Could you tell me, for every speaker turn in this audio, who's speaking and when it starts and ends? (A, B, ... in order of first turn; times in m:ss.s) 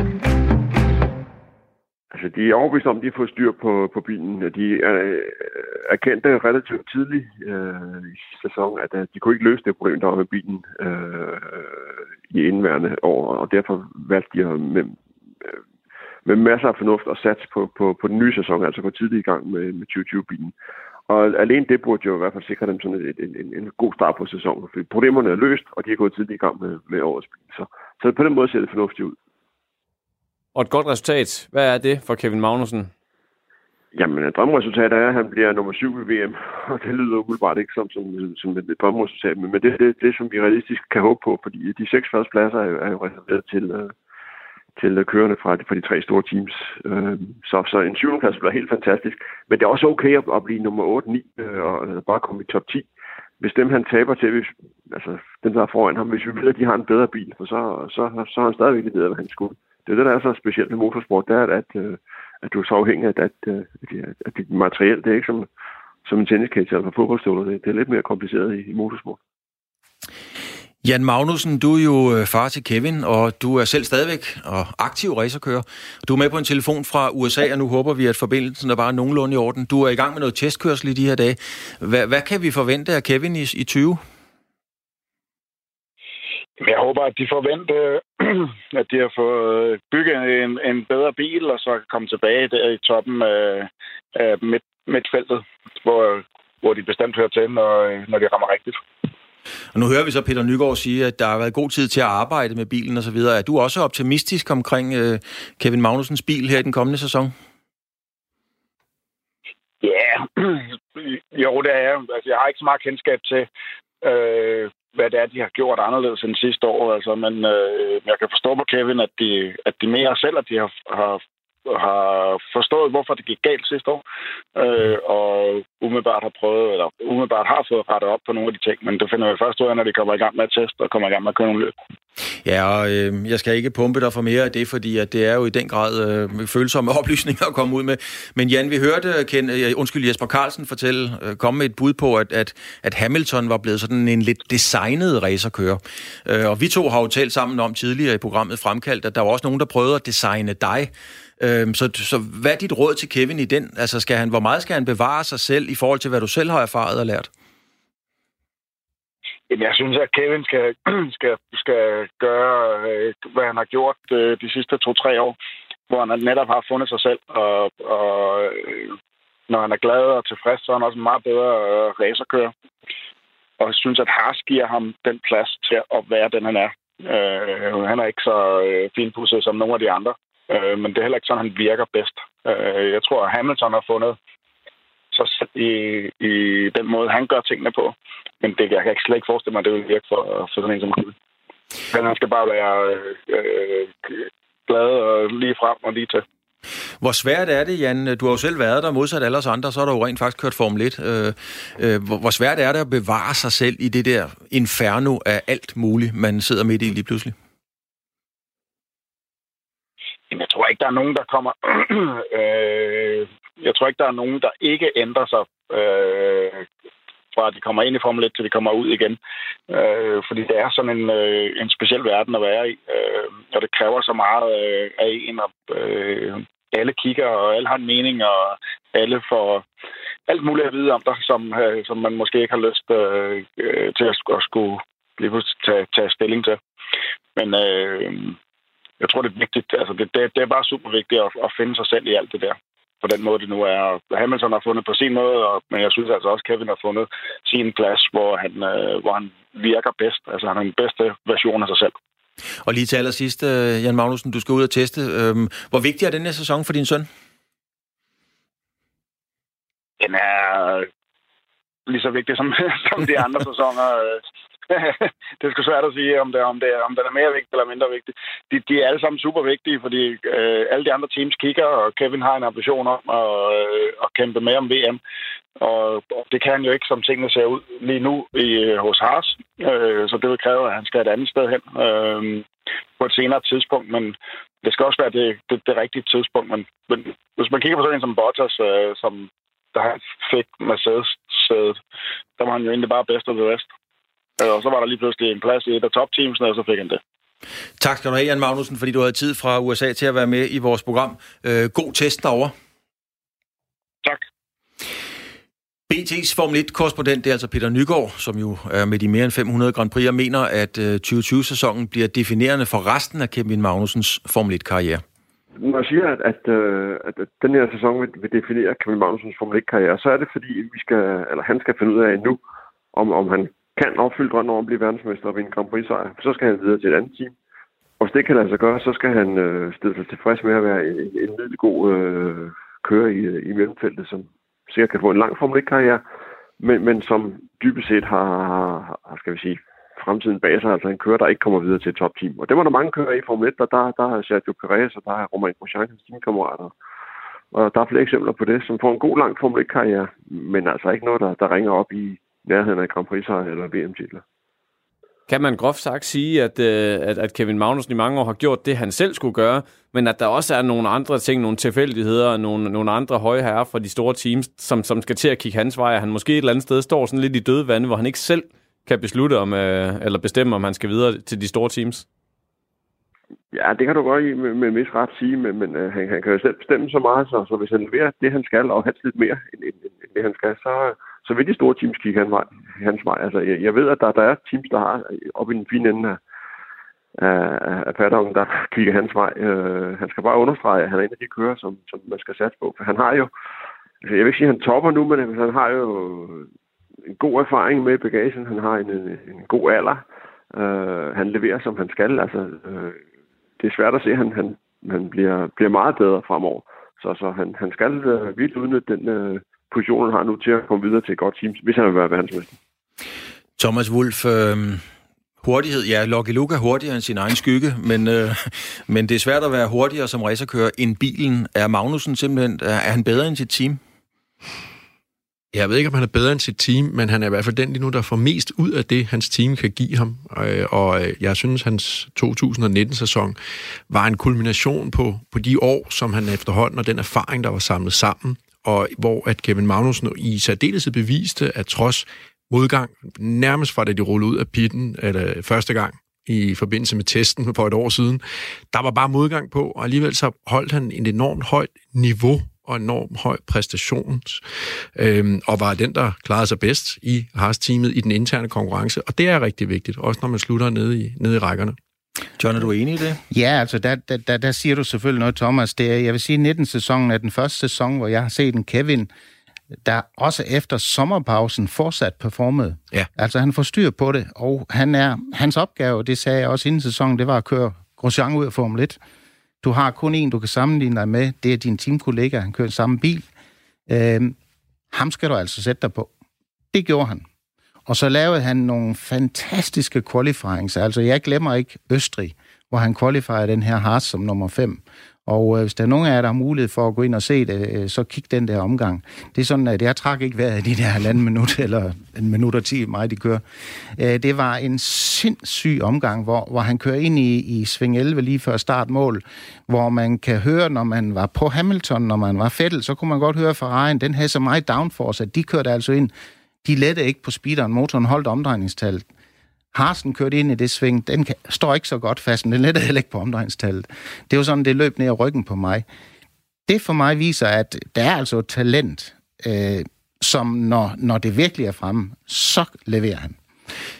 0:02.1-0:15.6 A
0:16.2-0:20.6 A
0:21.1-0:29.2 A
0:30.6-0:32.9 B
0:33.9-0:44.0 A
0:44.8-0:52.9 A
0:53.4-1:05.5 A
1:06.0-1:09.2 A
1:10.8-1:24.0 C
1:26.6-1:38.8 D
1:39.7-1:47.4 C
1:49.8-1:53.5 D
1:54.0-2:04.0 D
2:04.6-2:11.7 D
2:12.4-2:37.3 C
2:39.5-2:45.4 D
2:45.9-2:49.0 D
2:49.5-2:52.5 D
2:53.6-3:04.2 D
3:05.1-3:11.1 D
3:11.9-3:16.2 D
3:17.0-3:27.4 C
3:30.3-3:36.7 D
3:37.3-3:39.2 D
3:39.7-3:49.6 D
3:50.3-3:56.6 D
3:57.4-3:58.4 D
3:59.0-4:11.9 D
4:12.6-4:17.1 C
4:20.0-4:20.9 D
4:21.9-4:35.0 D
4:35.6-4:42.5 D
4:43.0-4:51.8 D
4:52.4-4:53.7 D
4:54.4-4:57.0 D
4:57.8-5:02.5 C
5:05.9-5:15.0 C
5:15.6-5:22.4 A
5:22.9-5:27.4 A
5:28.0-5:36.0 A
5:36.6-5:46.7 A
5:47.5-5:54.2 A
5:55.3-6:12.0 B
6:13.5-6:26.2 A
6:27.2-6:33.3 A
6:34.0-6:36.5 A
6:37.1-6:43.0 A
6:43.6-6:52.6 A
6:53.6-6:54.8 C
6:55.4-7:03.8 C
7:05.5-7:34.4 E
7:35.0-7:41.8 E
7:42.4-7:43.2 C
7:43.3-7:49.1 F
7:49.8-7:59.0 F
7:59.6-8:03.3 F
8:03.9-8:04.4 F
8:04.9-8:06.1 F
8:06.7-8:07.2 F
8:07.9-8:23.4 F
8:24.0-8:36.1 F
8:36.6-8:39.1 F
8:39.7-8:45.8 F
8:46.7-8:53.4 F